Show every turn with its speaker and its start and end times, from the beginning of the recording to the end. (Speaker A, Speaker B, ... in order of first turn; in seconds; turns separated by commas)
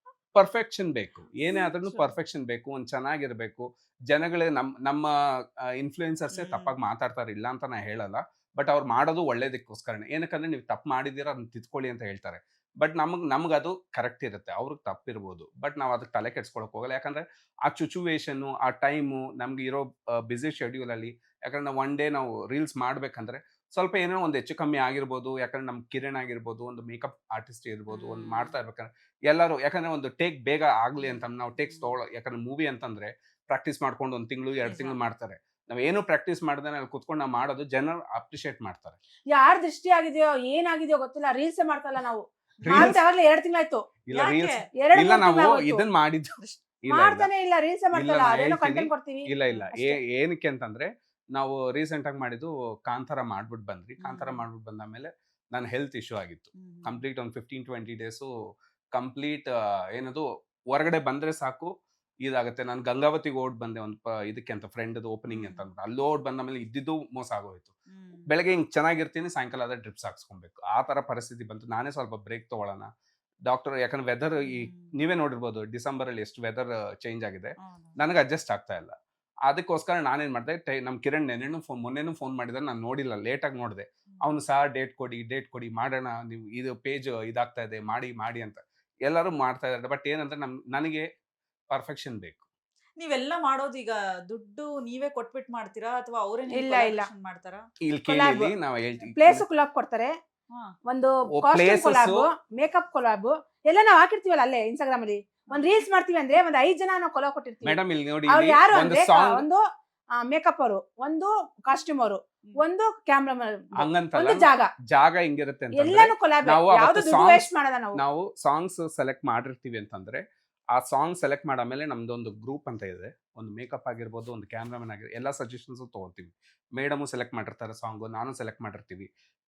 Speaker A: 0.3-39.0, Speaker B: 1.5-2.1, Speaker B: 6.3-6.7, Speaker B: 27.9-28.5, Speaker B: 31.0-31.9, Speaker B: 34.6-35.0, Speaker C: 39.3-43.8, Speaker B: 42.6-42.9, Speaker A: 42.6-43.0, Speaker A: 44.1-47.3, Speaker B: 44.1-44.6, Speaker C: 44.8-45.9, Speaker C: 46.9-50.0, Speaker A: 47.9-58.3, Speaker B: 54.0-54.4, Speaker B: 56.6-57.0, Speaker A: 58.9-61.7, Speaker A: 62.2-67.7, Speaker B: 65.3-65.6, Speaker B: 67.9-68.3, Speaker A: 68.3-72.9, Speaker A: 73.5-78.9, Speaker B: 74.4-74.9, Speaker B: 77.6-77.9, Speaker A: 79.5-91.1, Speaker A: 91.7-92.4, Speaker B: 93.0-97.6, Speaker C: 96.5-97.1, Speaker A: 97.8-99.4, Speaker C: 98.1-98.5, Speaker C: 99.2-100.1, Speaker C: 100.9-107.8, Speaker A: 101.3-102.3, Speaker A: 107.6-109.5, Speaker C: 108.3-109.6, Speaker C: 110.2-114.7, Speaker A: 113.8-120.2, Speaker C: 115.7-118.0, Speaker A: 120.7-129.1